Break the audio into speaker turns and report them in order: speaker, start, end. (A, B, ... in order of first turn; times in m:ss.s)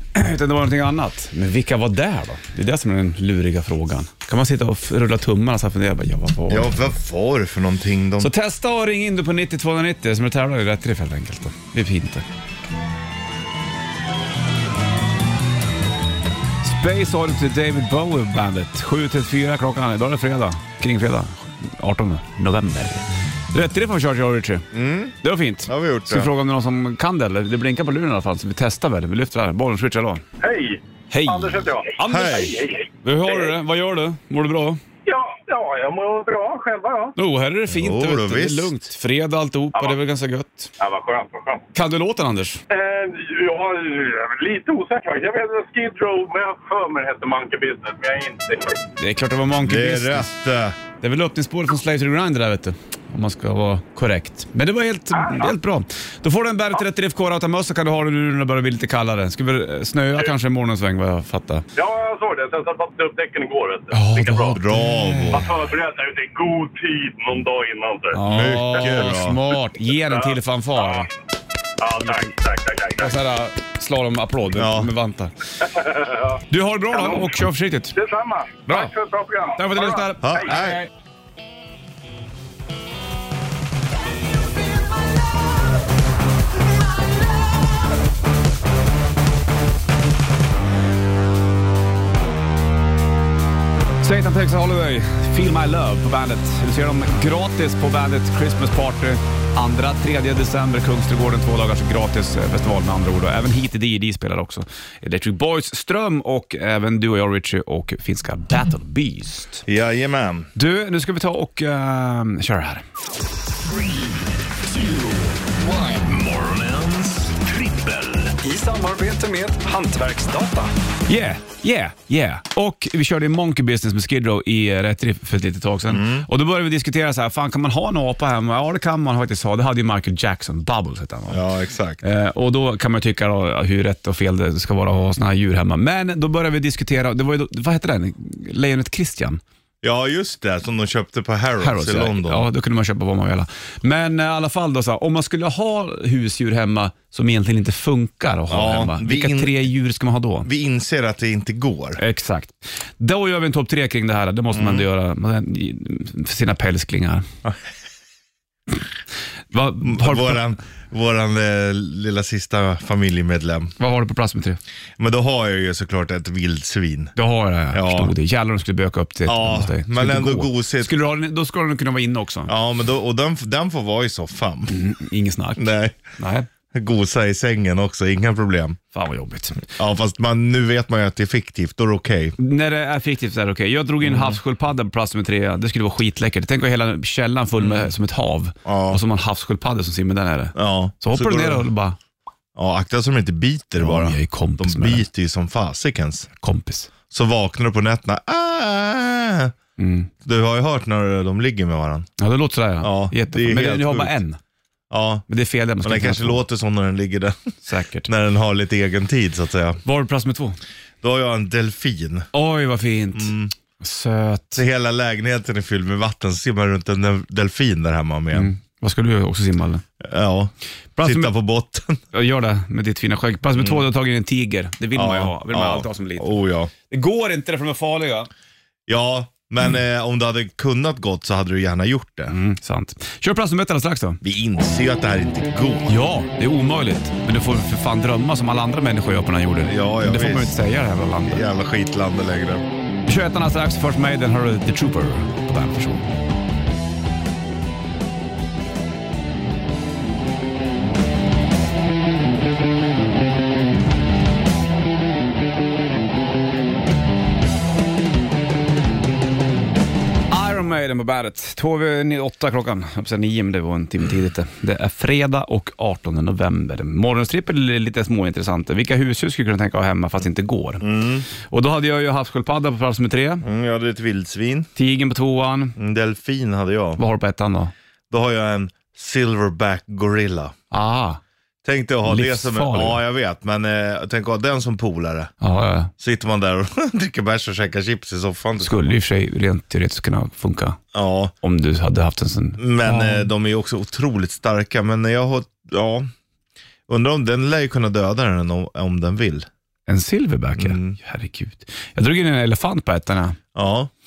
0:00.1-0:06.7 A
0:06.5-0:08.3 B
0:08.2-0:12.2 A
0:16.6-0:24.7 A
0:24.7-0:26.3 B
0:25.2-0:30.2 A
0:30.4-0:33.5 C
0:31.1-0:32.5 A
0:32.0-0:32.6 B
0:33.0-0:34.8 A
0:35.0-0:37.2 C
0:37.2-0:40.7 A
0:37.7-0:38.7 B
0:40.8-0:41.6 C
0:41.7-0:42.6 A
0:42.7-0:48.8 C
0:49.0-0:50.3 A
0:49.6-0:50.8 B
0:51.0-1:01.6 A
0:55.2-0:55.5 C
1:01.8-1:04.6 C
1:03.9-1:05.4 A
1:04.5-1:05.5 B
1:05.3-1:08.2 C
1:08.1-1:11.1 A
1:08.2-1:09.4 B
1:10.1-1:11.0 C
1:11.8-1:13.1 C
1:13.0-1:15.3 A
1:14.5-1:14.9 B
1:15.6-1:17.3 C
1:16.5-1:17.9 A
1:17.9-1:20.4 C
1:18.7-1:18.9 A
1:19.6-1:20.9 A
1:20.2-1:20.8 B
1:34.0-1:49.6 A
1:49.6-1:50.5 B
1:50.5-1:52.8 A
1:55.7-2:11.4 A
2:05.9-2:06.3 B
2:11.3-2:12.0 B
2:12.0-2:19.4 A
2:19.8-2:22.4 B
2:21.6-2:30.5 A
2:28.5-2:29.6 B
2:30.4-2:32.0 B
2:32.0-2:37.2 A
2:34.5-2:34.9 B
2:39.5-2:40.4 A
2:39.8-2:43.7 B
2:43.8-2:44.6 A
2:45.0-2:47.1 B
2:47.2-2:52.5 A
2:47.7-2:48.1 B
2:49.2-2:50.9 B
2:52.5-2:54.8 B
2:54.7-2:56.5 A
2:55.6-2:56.0 B
2:56.7-2:58.8 B
2:58.9-2:59.6 A
2:59.7-3:02.4 B
3:02.4-3:12.0 A
3:04.0-3:04.4 B
3:07.6-3:07.9 B
3:08.6-3:09.0 B
3:10.6-3:11.6 B
3:12.6-3:16.3 B
3:13.8-3:15.0 A
3:16.4-3:16.9 A
3:17.1-3:19.5 B
3:19.8-3:20.1 A
3:20.2-3:22.1 B
3:22.2-3:24.4 A
3:22.8-3:24.2 B
3:24.9-3:25.2 B
3:25.3-3:26.4 A
3:25.8-3:27.4 B
3:27.6-3:28.1 A
3:28.0-3:29.8 B
3:29.8-3:30.6 A
3:31.0-3:32.3 B
3:32.3-3:34.6 A
3:33.1-3:33.5 B
3:34.5-3:38.5 B
3:38.3-3:39.8 A
3:40.0-3:42.0 B
3:41.0-3:41.3 A
3:42.1-3:48.3 A
3:43.6-3:43.8 B
3:44.9-3:46.7 B
3:48.9-3:52.3 B
3:52.3-3:54.2 A
3:54.2-3:55.9 B
3:55.9-4:01.4 A
3:59.6-4:00.6 B
4:01.3-4:02.6 B
4:03.0-4:06.1 A
4:20.3-4:33.4 A
4:30.8-4:31.3 B
4:33.4-4:34.7 B
4:34.8-4:35.8 A
4:35.8-4:37.0 B
4:37.0-4:37.7 A
4:38.1-4:40.5 B
4:40.7-4:41.2 A
4:41.6-4:45.3 B
4:42.0-4:43.0 A
4:45.4-4:45.9 A
4:46.0-4:49.0 B
4:48.6-4:50.8 A
4:50.9-4:51.3 B
4:51.4-4:53.3 A
4:52.6-4:56.1 B
4:56.9-4:59.5 B
4:59.9-5:03.4 A
5:00.6-5:01.0 B
5:03.5-5:03.9 B